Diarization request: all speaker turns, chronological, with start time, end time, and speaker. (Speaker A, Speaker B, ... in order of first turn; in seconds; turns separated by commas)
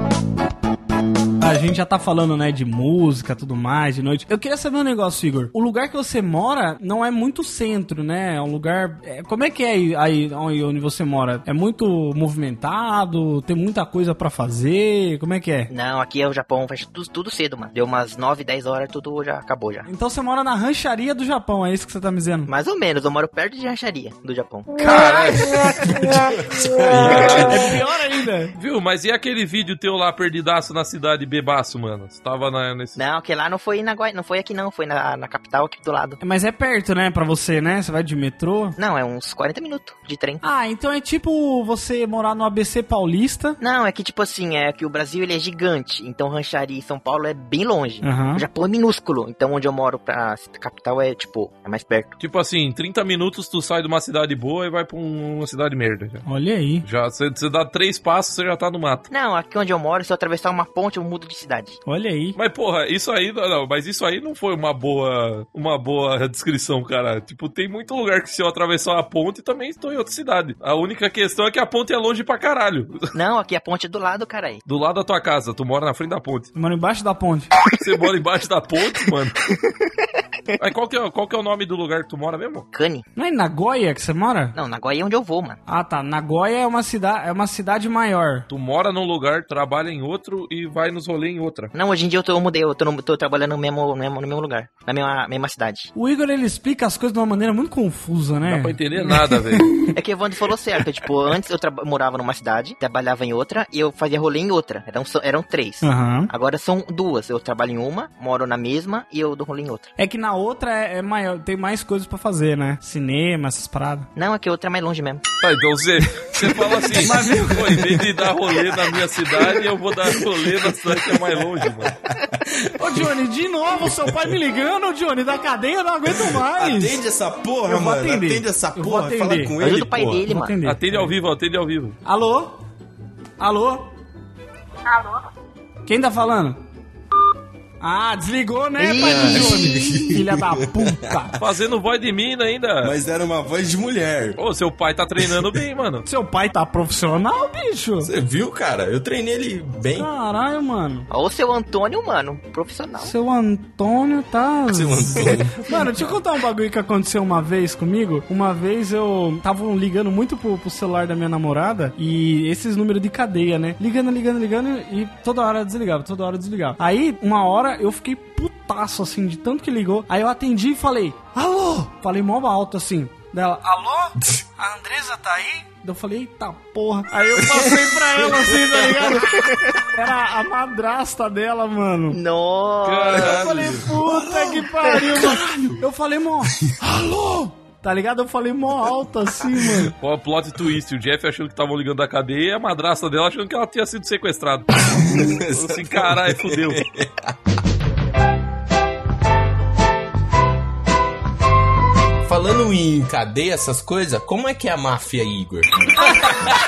Speaker A: 1.4-15.7, Speaker B: 15.7-19.9, Speaker A: 19.9-22.5, Speaker B: 22.5-24.8, Speaker C: 24.8-25.5, Speaker A: 24.8-26.3, Speaker D: 25.8-27.8, Speaker A: 26.9-28.5, Speaker C: 27.0-27.7, Speaker C: 28.5-33.0, Speaker B: 33.0-36.2, Speaker A: 36.2-38.8, Speaker B: 38.8-40.4, Speaker A: 40.4-43.6, Speaker B: 43.6-52.1, Speaker A: 48.0-48.4, Speaker C: 52.2-56.2, Speaker A: 56.2-56.9, Speaker C: 56.8-59.1, Speaker B: 59.1-61.8, Speaker A: 61.9-62.4, Speaker C: 62.3-73.1, Speaker B: 73.1-74.6, Speaker C: 74.7-76.5, Speaker A: 76.5-77.5, Speaker C: 77.7-79.4, Speaker C: 80.6-82.7, Speaker B: 82.7-83.0, Speaker A: 83.2-84.5, Speaker B: 84.5-85.6, Speaker A: 85.7-88.5, Speaker C: 88.5-91.7, Speaker B: 91.7-95.9, Speaker A: 95.9-99.9, Speaker C: 98.4-99.7, Speaker B: 99.9-109.9, Speaker A: 105.8-106.3, Speaker A: 110.0-114.1, Speaker B: 114.2-115.2, Speaker C: 115.4-121.9, Speaker A: 116.7-118.2, Speaker D: 119.3-123.1, Speaker A: 122.7-127.0, Speaker D: 124.0-124.3, Speaker D: 126.0-130.3, Speaker A: 127.7-129.6, Speaker B: 129.6-130.6, Speaker A: 130.3-131.1, Speaker C: 130.6-132.0, Speaker A: 132.0-132.6, Speaker A: 133.4-133.9, Speaker A: 135.9-136.6, Speaker A: 137.8-141.3, Speaker B: 138.8-140.2, Speaker D: 139.0-141.4, Speaker C: 141.4-142.9, Speaker D: 142.8-144.4, Speaker C: 144.4-146.0, Speaker D: 145.2-145.6, Speaker A: 146.0-148.1, Speaker D: 148.0-150.1, Speaker A: 149.9-151.1, Speaker B: 151.1-153.1, Speaker A: 153.0-182.2, Speaker D: 154.7-156.1, Speaker D: 177.4-179.1, Speaker B: 179.5-179.7, Speaker B: 182.1-183.7, Speaker C: 182.8-183.8, Speaker A: 183.1-189.9, Speaker D: 183.4-184.6, Speaker B: 184.9-185.2, Speaker D: 185.2-185.6, Speaker C: 190.0-196.8, Speaker D: 194.8-197.4, Speaker D: 202.2-206.3, Speaker A: 206.1-206.5